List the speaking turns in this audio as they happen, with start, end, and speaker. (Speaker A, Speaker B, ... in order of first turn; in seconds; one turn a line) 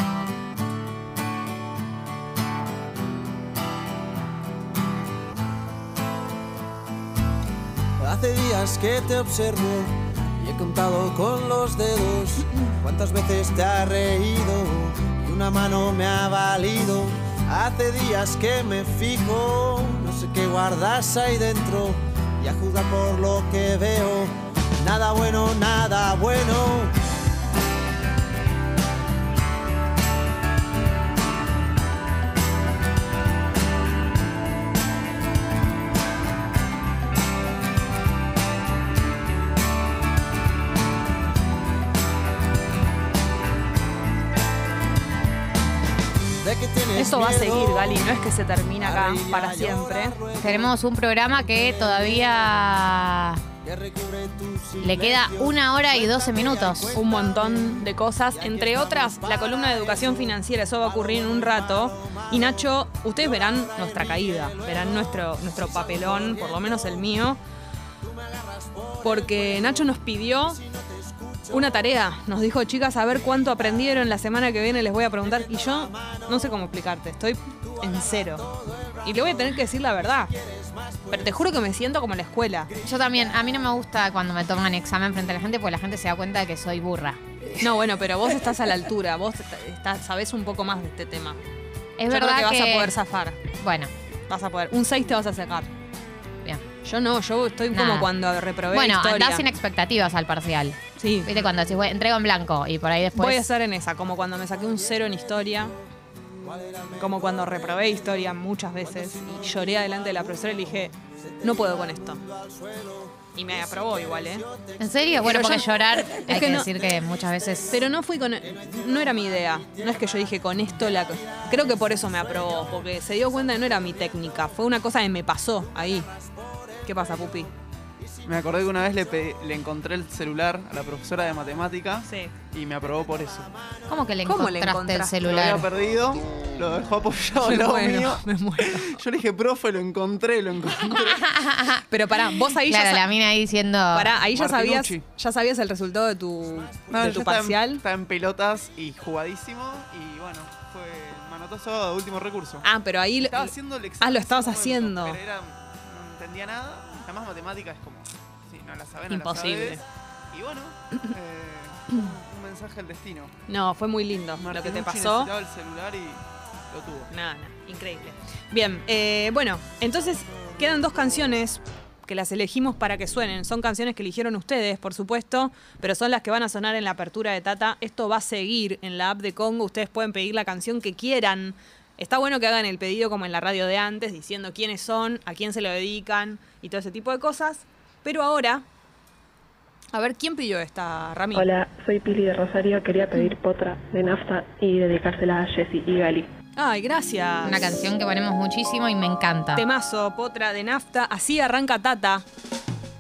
Speaker A: 8.0-24.3
Speaker A: 24.8-26.9
Speaker A: 46.6-47.5
Speaker B: 46.9-50.2
Speaker A: 49.7-50.4
Speaker C: 50.4-53.4
Speaker A: 54.0-54.5
Speaker C: 54.8-57.0
Speaker B: 56.9-67.4
Speaker B: 69.0-70.6
Speaker B: 71.5-78.5
Speaker B: 79.0-80.3
Speaker B: 81.1-82.7
Speaker C: 82.8-87.2
Speaker B: 87.6-91.4
Speaker C: 92.0-92.9
Speaker B: 92.1-93.4
Speaker C: 93.6-93.9
Speaker B: 94.3-95.7
Speaker B: 96.8-99.5
Speaker C: 97.7-98.1
Speaker C: 98.7-103.4
Speaker B: 101.0-101.5
Speaker B: 103.2-105.8
Speaker B: 107.0-112.2
Speaker B: 113.3-114.5
Speaker C: 114.8-117.8
Speaker B: 115.2-116.7
Speaker B: 117.7-126.1
Speaker B: 126.8-127.5
Speaker D: 128.3-133.5
Speaker B: 132.1-132.3
Speaker C: 133.9-135.7
Speaker B: 134.2-135.2
Speaker D: 135.2-141.2
Speaker B: 137.4-139.0
Speaker C: 141.1-141.8
Speaker B: 141.9-143.1
Speaker C: 142.7-144.1
Speaker B: 143.9-147.8
Speaker D: 144.3-145.0
Speaker D: 146.9-152.7
Speaker B: 152.6-155.2
Speaker D: 153.2-163.3
Speaker B: 159.1-159.8
Speaker B: 163.5-165.3
Speaker D: 164.4-167.1
Speaker B: 167.1-188.6
Speaker B: 189.9-191.5
Speaker E: 191.3-196.3
Speaker B: 196.6-197.7
Speaker C: 197.4-199.6
Speaker B: 199.6-202.2